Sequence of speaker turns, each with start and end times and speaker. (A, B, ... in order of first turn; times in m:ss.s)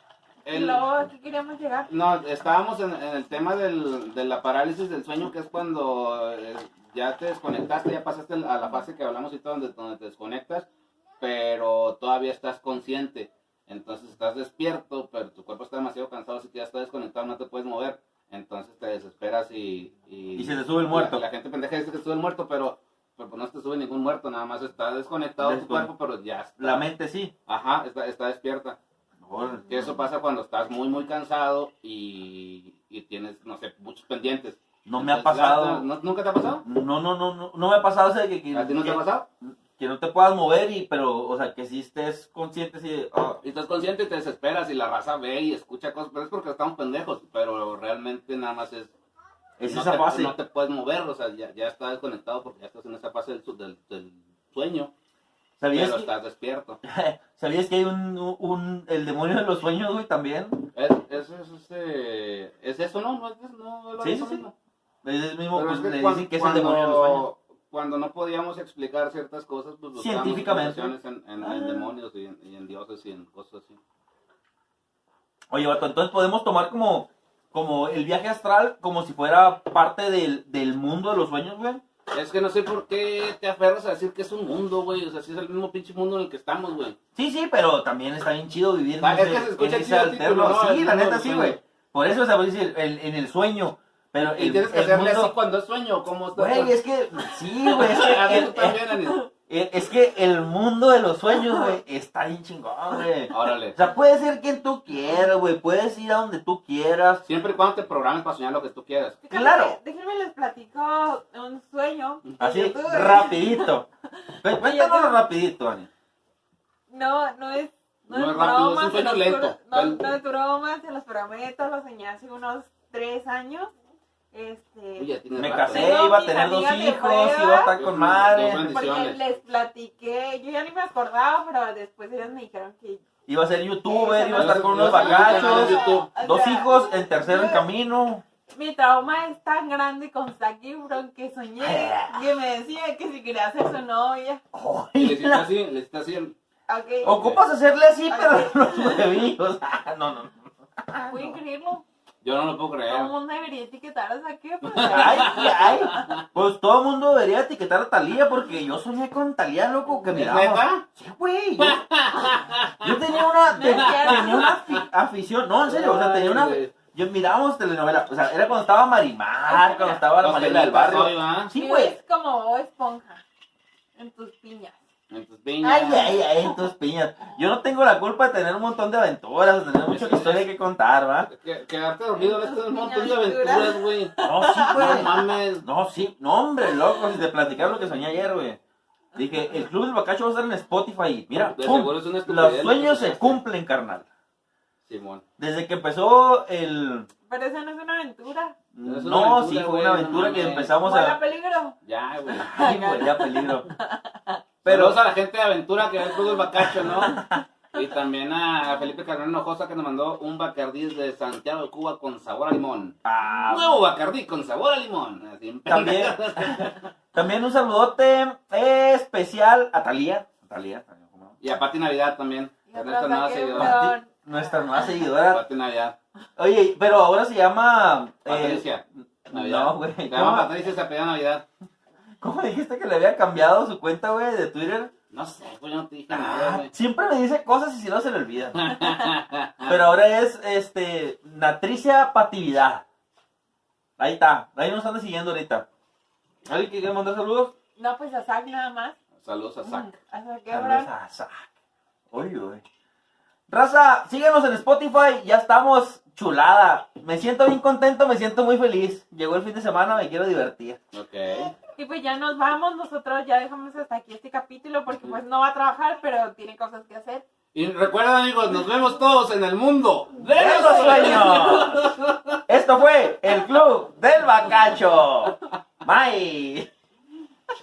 0:00.4-0:01.9 A
0:00.4-0:00.8 B
0:01.9-0:10.7 B
0:11.2-0:26.8 B
0:20.4-0:21.2 C
0:25.4-0:25.9 C
0:26.6-0:27.3 C
0:27.5-0:28.8 B
0:29.2-0:29.9 C
0:29.7-0:36.6 B
0:34.8-0:35.8 C
0:36.6-0:43.4 C
0:38.5-0:39.2 B
0:43.4-0:48.9 B
0:49.6-0:50.3 C
0:49.6-0:54.9 B
0:55.6-0:56.1 C
0:55.7-0:56.8 B
0:56.8-1:00.7 C
1:00.7-1:04.5 B
1:04.0-1:04.4 C
1:05.0-1:07.2 C
1:05.5-1:13.8 B
1:09.9-1:11.9 C
1:15.5-1:21.8 C
1:22.1-1:27.0 B
1:27.2-1:35.3 C
1:29.0-1:31.6 B
1:34.2-1:36.7 B
1:36.3-1:38.8 C
1:37.7-1:39.2 B
1:39.5-1:47.2 C
1:43.3-1:43.8 B
1:47.2-1:49.2 B
1:49.2-1:53.7 A
1:49.3-1:49.8 C
1:52.4-1:53.8 C
1:54.2-1:55.2 A
1:54.4-1:55.9 C
1:56.9-2:03.7 A
1:58.1-2:00.0 B
2:04.3-2:05.1 A
2:05.0-2:05.9 B
2:05.4-2:08.7 C
2:05.7-2:07.8 A
2:07.7-2:09.2 B
2:08.6-2:13.0 A
2:13.3-2:18.2 C
2:13.9-2:17.6 A
2:14.3-2:16.1 B
2:18.5-2:24.4 A
2:21.6-2:22.2 C
2:24.5-2:25.4 C
2:25.0-2:26.3 B
2:26.7-2:27.2 A
2:27.0-2:30.5 C
2:27.1-2:27.4 B
2:28.1-2:29.2 A
2:30.9-2:31.8 A
2:31.0-2:31.4 C
2:32.2-2:33.1 B
2:32.9-2:36.1 A
2:34.6-2:36.2 B
2:34.8-2:41.8 C
2:40.1-2:40.8 B
2:41.6-2:43.1 B
2:42.8-2:52.0 C
2:43.5-2:44.6 A
2:43.8-2:44.8 B
2:45.6-2:46.7 B
2:49.4-2:50.1 A
2:50.2-2:51.5 B
2:51.5-2:53.2 A
2:54.0-2:54.8 A
2:55.1-2:56.2 B
2:55.6-3:01.3 C
2:59.8-3:00.4 B
3:01.3-3:05.6 B
3:02.1-3:05.3 A
3:04.2-3:08.6 C
3:06.6-3:07.2 A
3:09.1-3:14.1 C
3:11.5-3:13.4 B
3:14.8-3:15.2 B
3:15.4-3:17.1 C
3:17.3-3:18.5 A
3:18.7-3:21.2 C
3:18.8-3:20.7 B
3:20.8-3:21.8 A
3:21.8-3:22.5 B
3:22.4-3:24.4 A
3:22.5-3:23.7 C
3:24.6-3:25.0 C
3:24.6-3:36.8 B
3:26.6-3:27.4 C
3:33.0-3:33.8 C
3:33.2-3:33.6 A
3:35.6-3:41.4 C
3:41.4-3:43.9 B
3:42.7-3:44.1 A
3:43.6-3:45.4 C
3:45.2-3:46.0 B
3:46.4-3:48.7 C
3:48.2-3:51.4 B
3:49.2-3:50.5 C
3:52.2-3:54.9 C
3:55.1-3:56.7 B
3:56.1-3:58.8 C
3:58.5-3:59.8 B
3:59.6-4:02.8 C
4:04.0-4:05.6 C
4:06.4-4:07.5 C
4:07.8-4:09.0 A
4:09.2-4:09.9 B
4:09.6-4:10.9 A
4:10.5-4:11.4 C
4:12.1-4:12.6 C
4:13.5-4:20.8 C
4:20.9-4:21.5 B
4:21.7-4:27.2 A
4:27.5-4:32.4 B
4:30.3-4:31.9 C
4:30.4-4:31.4 A
4:32.5-4:36.7 C